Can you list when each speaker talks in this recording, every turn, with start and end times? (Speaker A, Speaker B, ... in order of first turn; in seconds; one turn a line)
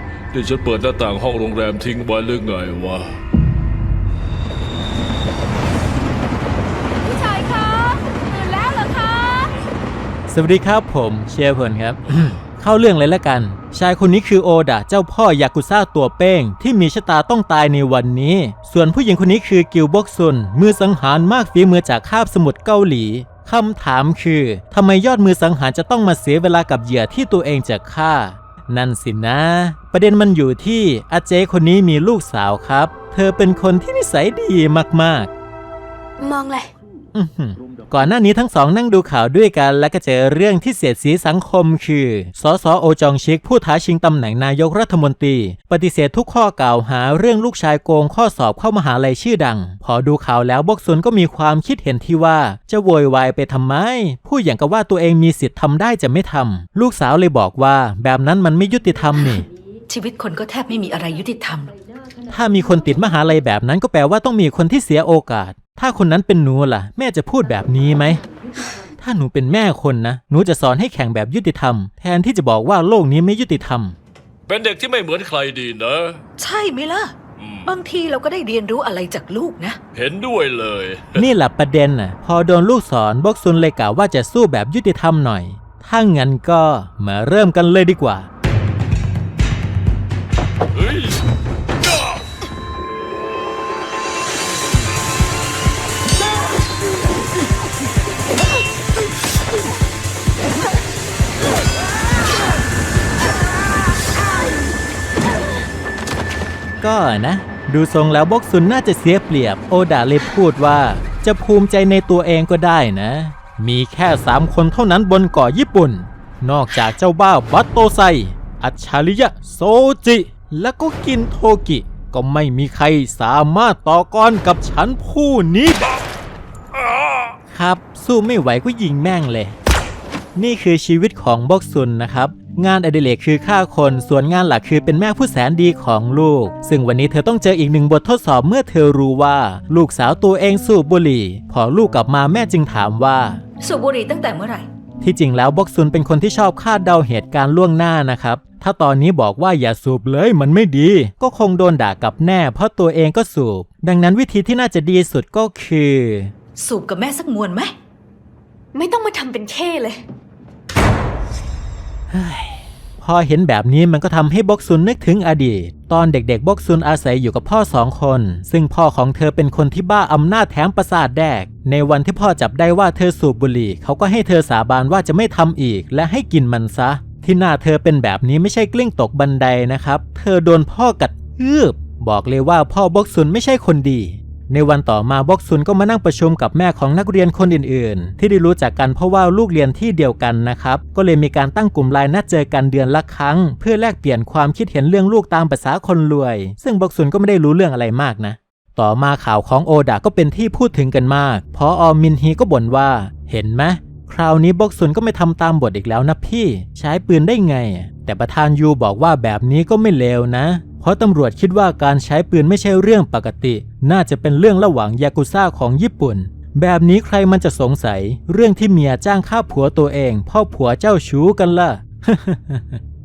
Speaker A: 0.3-3.1
Speaker B: 7.0-9.5
Speaker C: 10.3-35.3
Speaker B: 36.2-36.7
Speaker C: 37.1-59.5
Speaker D: 59.9-61.7
Speaker C: 62.3-68.2
Speaker C: 69.0-74.0
Speaker A: 74.5-76.2
Speaker D: 76.4-77.2
Speaker A: 77.4-77.7
Speaker D: 77.7-79.8
Speaker A: 80.0-81.3
Speaker C: 81.2-88.3
Speaker A: 90.7-91.2
Speaker C: 106.8-125.8
Speaker C: 127.5-129.6
Speaker C: 130.3-143.4
Speaker D: 143.6-144.7
Speaker C: 145.0-156.3
Speaker D: 156.6-157.7
Speaker B: 158.7-160.0
Speaker C: 162.1-222.8